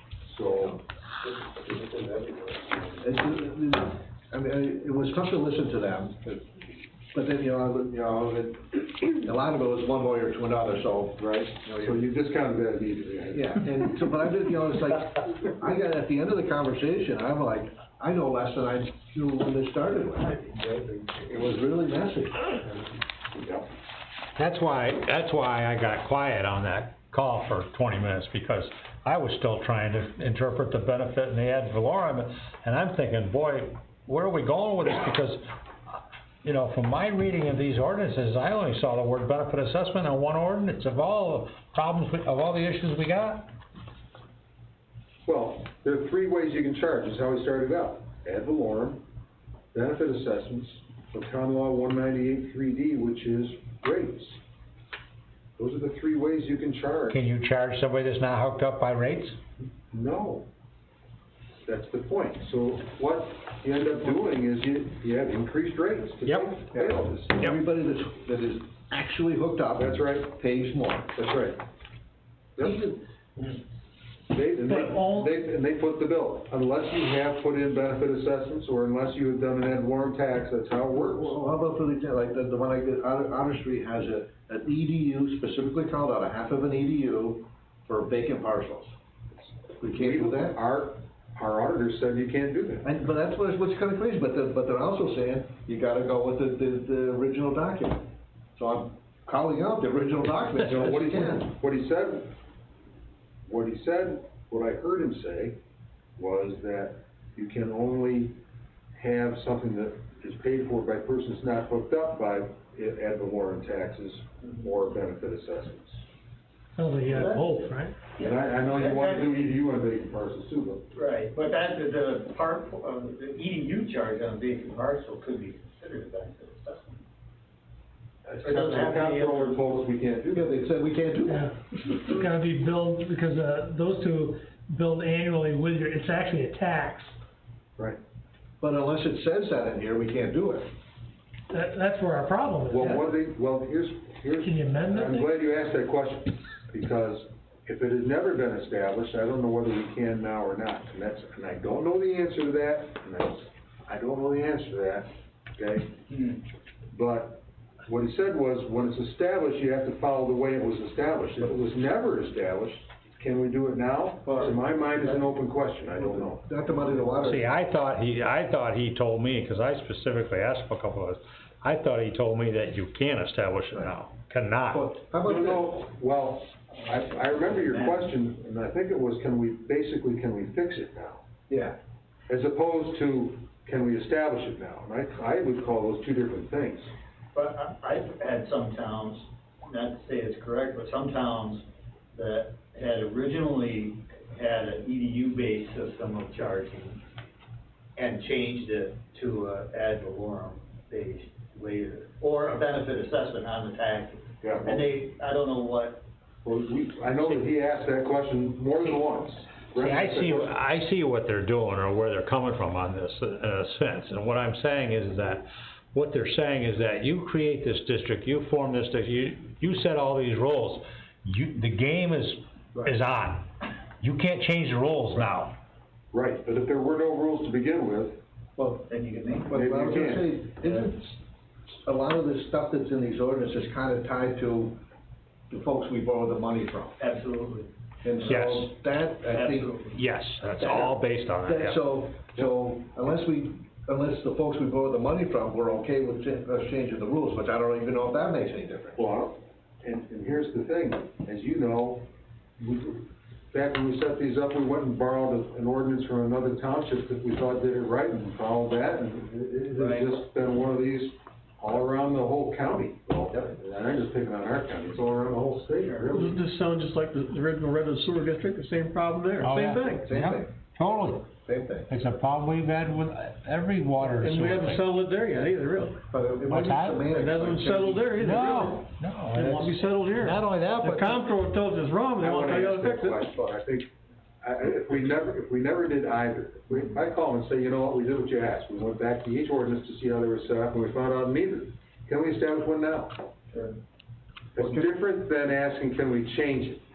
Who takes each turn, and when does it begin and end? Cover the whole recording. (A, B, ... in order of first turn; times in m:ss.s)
0:00.2-0:00.8 A
0:00.5-0:00.8 B
0:03.0-0:11.9 B
0:11.2-0:13.9 A
0:13.3-0:20.4 B
0:20.3-0:21.3 C
0:21.3-0:22.6 B
0:23.4-0:23.6 A
0:24.4-0:35.4 D
0:36.4-0:43.5 D
0:45.3-0:49.0 A
0:49.7-0:54.4 A
0:55.6-0:57.2 A
0:57.1-0:59.4 D
0:59.9-1:00.5 A
1:01.7-1:07.4 A
1:06.2-1:06.5 D
1:06.7-1:11.1 B
1:09.8-1:10.3 A
1:11.2-1:11.6 A
1:12.6-1:13.0 B
1:14.3-1:21.4 A
1:14.7-1:15.3 E
1:21.0-1:28.9 B
1:29.8-1:30.6 B
1:29.9-1:32.9 A
1:32.8-1:41.5 B
1:40.6-1:42.3 A
1:43.5-1:45.6 A
1:46.2-1:48.4 A
1:49.0-1:56.0 A
1:54.4-1:54.7 C
1:56.8-1:58.0 E
1:57.0-1:57.5 C
1:58.2-1:59.5 C
1:58.2-2:00.9 A
2:00.9-2:07.0 C
2:08.2-2:10.6 A
2:08.4-2:09.8 C
2:10.3-2:11.5 B
2:11.3-2:17.2 E
2:18.6-2:20.7 B
2:21.5-2:22.9 E
2:22.7-2:36.0 A
2:22.8-2:23.1 B
2:24.4-2:25.3 E
2:36.1-2:36.4 C
2:36.9-2:46.5 A
2:44.3-2:44.5 C
2:46.2-2:47.5 B
2:47.2-2:54.8 D
2:54.7-2:55.7 B
2:55.2-3:01.2 A
2:56.8-2:58.1 C
3:01.5-3:01.8 B
3:02.3-3:06.9 A
3:07.3-3:17.0 C
3:18.0-3:26.0 C
3:24.4-3:24.8 A
3:26.4-3:30.6 A
3:29.8-3:45.6 D
3:46.1-3:48.2 A
3:48.6-3:48.9 B
3:48.9-3:49.5 C
3:49.5-3:51.2 B
3:49.5-3:50.4 A
3:51.8-3:54.8 B
3:55.5-3:57.0 B
3:57.0-3:58.3 C
3:58.0-3:59.8 B
3:58.3-3:58.8 D
3:59.3-4:00.0 C
3:59.9-4:01.8 D
4:00.6-4:09.1 B
4:09.0-4:26.4 A
4:19.8-4:20.1 C
4:26.1-4:30.1 F
4:29.4-4:31.2 D
4:29.7-4:30.5 B
4:31.2-4:31.9 B
4:31.9-4:34.8 D
4:34.2-4:36.0 F
4:36.1-4:38.4 B
4:36.5-4:36.9 D
4:37.1-4:43.2 F
4:38.2-4:41.3 D
4:42.2-4:43.9 A
4:44.4-4:53.1 A
4:53.5-4:53.8 C
4:54.6-4:56.8 A